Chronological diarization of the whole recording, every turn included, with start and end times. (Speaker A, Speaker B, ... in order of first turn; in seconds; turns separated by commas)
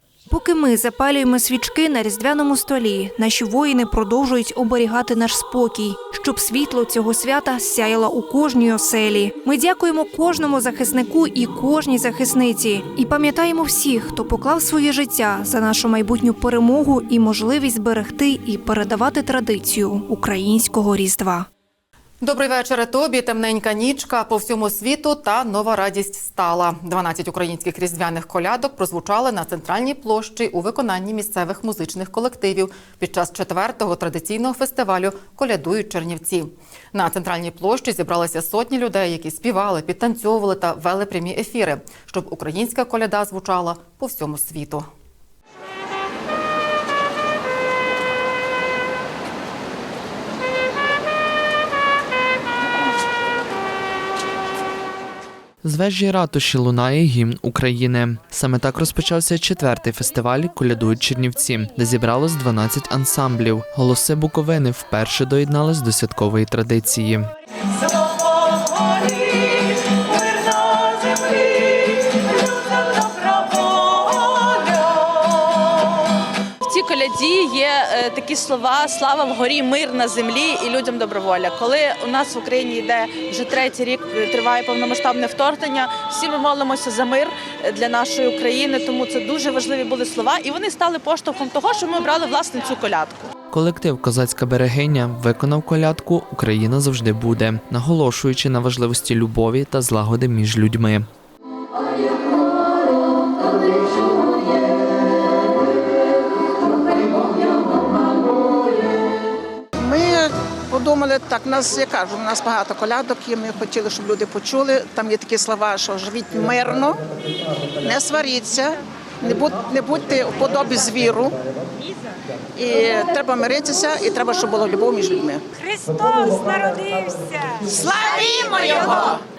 Speaker A: 0.3-21.5, Speaker B: 22.2-44.9, Speaker C: 55.6-67.2, Speaker D: 68.1-68.8, Speaker D: 69.4-71.4, Speaker D: 72.9-74.7, Speaker D: 76.7-93.3, Speaker C: 93.5-101.1, Speaker E: 109.8-121.4, Speaker E: 122.6-125.4, Speaker E: 127.8-129.2